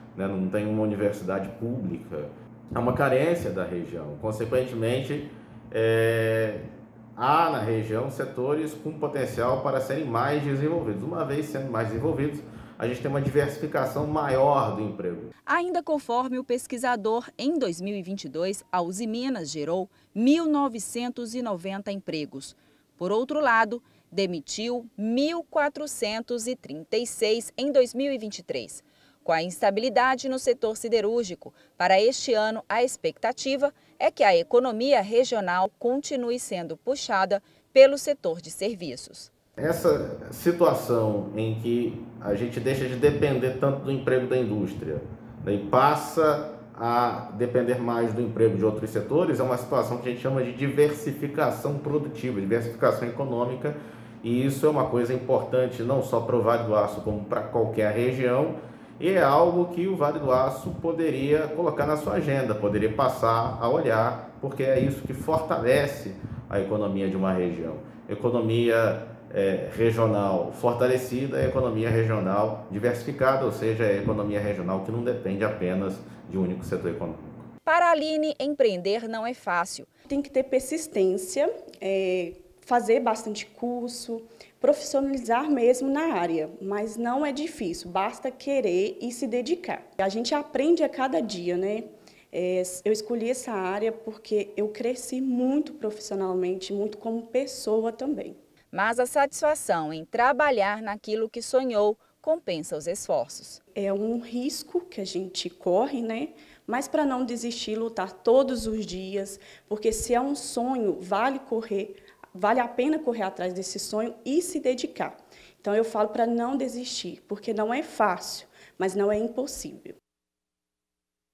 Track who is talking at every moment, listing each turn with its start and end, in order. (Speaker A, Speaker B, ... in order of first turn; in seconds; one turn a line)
Speaker A: 0.1-15.3
Speaker B: 15.5-39.3
Speaker A: 39.6-77.5
Speaker B: 77.7-79.9
Speaker C: 80.1-98.4
Speaker B: 98.7-103.6
Speaker C: 103.7-120.0